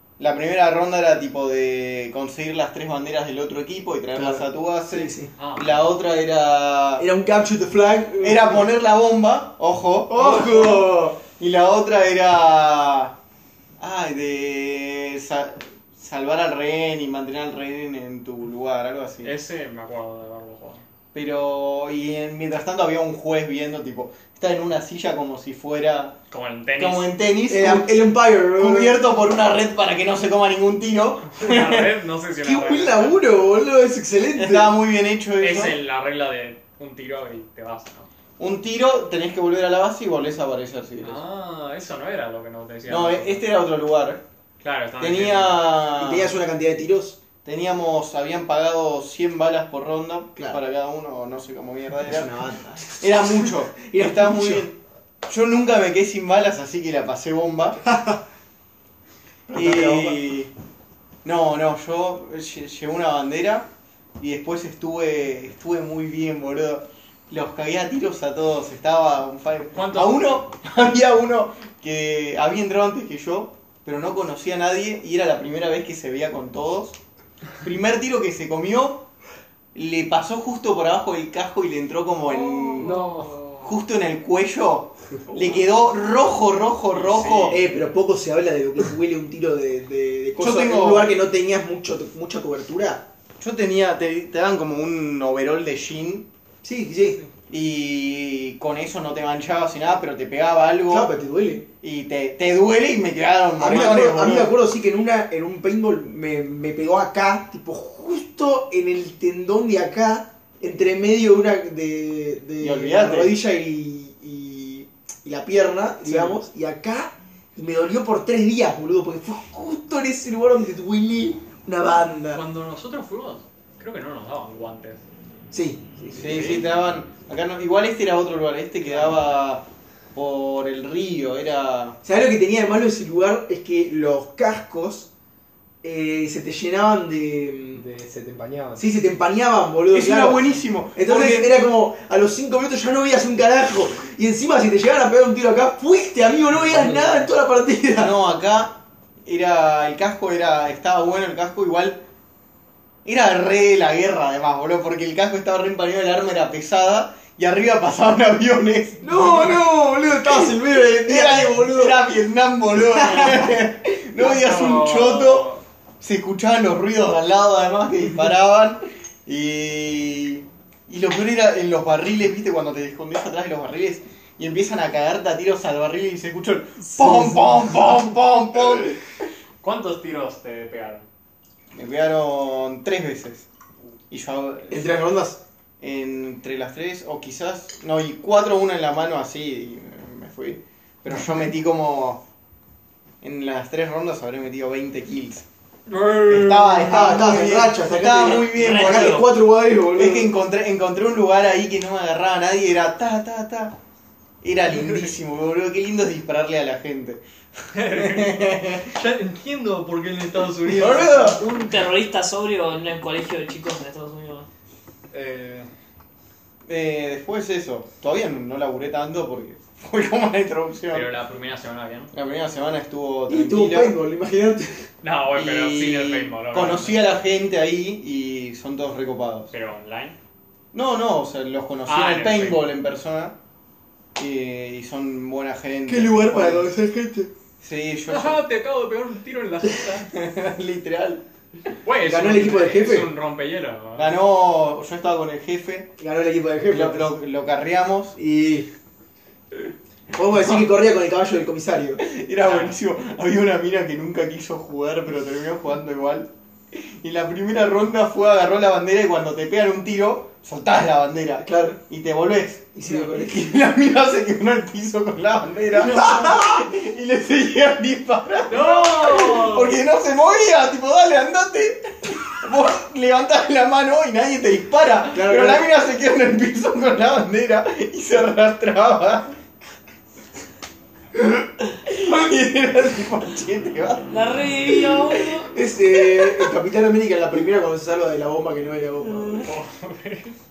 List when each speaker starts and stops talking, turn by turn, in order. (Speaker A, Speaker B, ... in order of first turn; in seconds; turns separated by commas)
Speaker A: 0.2-7.1, Speaker B: 4.2-5.3, Speaker C: 5.4-5.8, Speaker B: 7.0-8.7, Speaker A: 8.2-13.2, Speaker B: 10.1-11.2, Speaker A: 13.8-19.3, Speaker C: 19.2-20.8, Speaker A: 21.1-26.1, Speaker C: 26.3-27.1, Speaker A: 26.8-28.0, Speaker B: 27.5-29.0, Speaker A: 28.6-31.9, Speaker C: 31.4-33.3, Speaker B: 32.4-34.8, Speaker A: 34.3-35.8, Speaker C: 35.4-38.1, Speaker A: 38.4-41.2, Speaker C: 41.0-43.4, Speaker A: 42.9-44.2, Speaker C: 44.6-45.9, Speaker A: 45.0-46.3, Speaker B: 46.0-47.2, Speaker A: 47.4-52.3, Speaker B: 52.0-54.7, Speaker A: 52.9-57.8, Speaker B: 59.5-60.2, Speaker A: 59.5-60.5, Speaker A: 61.2-77.0, Speaker C: 69.7-70.4, Speaker A: 77.6-79.1, Speaker A: 79.7-83.0, Speaker C: 82.2-83.8, Speaker D: 82.8-83.4, Speaker A: 83.6-87.6, Speaker B: 85.3-85.6, Speaker C: 86.9-87.8, Speaker B: 87.5-93.0, Speaker A: 90.4-91.1, Speaker A: 93.4-96.3, Speaker B: 96.6-97.2, Speaker A: 97.5-101.1, Speaker B: 100.9-101.7, Speaker A: 101.8-104.6, Speaker B: 103.6-122.4, Speaker A: 112.6-113.3, Speaker A: 116.0-116.4, Speaker C: 122.3-125.0, Speaker B: 125.5-126.5, Speaker A: 126.1-132.0, Speaker C: 126.2-126.6, Speaker C: 128.8-129.1, Speaker B: 132.0-135.1, Speaker B: 135.8-137.8, Speaker D: 137.7-138.9, Speaker B: 138.8-148.1, Speaker A: 139.9-141.5, Speaker D: 146.7-147.3, Speaker A: 148.0-152.0, Speaker A: 153.0-159.6, Speaker B: 159.0-162.0, Speaker A: 160.2-165.5, Speaker B: 162.8-163.5, Speaker C: 164.2-165.6, Speaker A: 166.0-179.0, Speaker C: 179.6-181.1, Speaker A: 181.7-183.5, Speaker A: 184.1-185.0, Speaker B: 184.7-185.4, Speaker A: 185.8-192.2, Speaker A: 193.2-195.4, Speaker C: 195.9-197.4, Speaker A: 196.3-199.2, Speaker B: 196.9-200.3, Speaker E: 198.2-199.3, Speaker A: 199.9-203.8, Speaker A: 204.4-207.2, Speaker C: 204.7-205.1, Speaker C: 207.7-211.4, Speaker A: 207.9-208.9, Speaker B: 210.7-211.4, Speaker A: 210.7-211.0, Speaker E: 211.3-214.5, Speaker C: 215.1-215.7, Speaker A: 216.7-221.1, Speaker C: 220.9-222.1, Speaker A: 222.1-224.0, Speaker B: 223.3-224.8, Speaker C: 225.0-227.0, Speaker A: 225.3-229.5, Speaker C: 229.5-230.2, Speaker A: 230.7-233.3, Speaker C: 231.8-232.6, Speaker A: 234.2-236.7, Speaker B: 235.9-237.3, Speaker A: 237.6-238.4, Speaker C: 238.1-240.1, Speaker A: 240.1-241.2, Speaker C: 241.8-244.1, Speaker B: 242.0-243.1, Speaker A: 243.9-245.9, Speaker B: 246.0-247.1, Speaker A: 246.7-248.2, Speaker B: 248.2-248.7, Speaker B: 250.1-252.0, Speaker A: 250.4-250.7, Speaker A: 252.0-279.4, Speaker C: 252.4-252.8, Speaker B: 261.4-261.8, Speaker B: 262.7-263.4, Speaker C: 265.8-266.3, Speaker B: 265.8-266.5, Speaker C: 268.5-269.8, Speaker B: 275.1-275.6, Speaker A: 281.8-284.1, Speaker E: 284.1-285.5, Speaker B: 285.4-289.5, Speaker E: 289.0-289.5, Speaker C: 289.4-290.3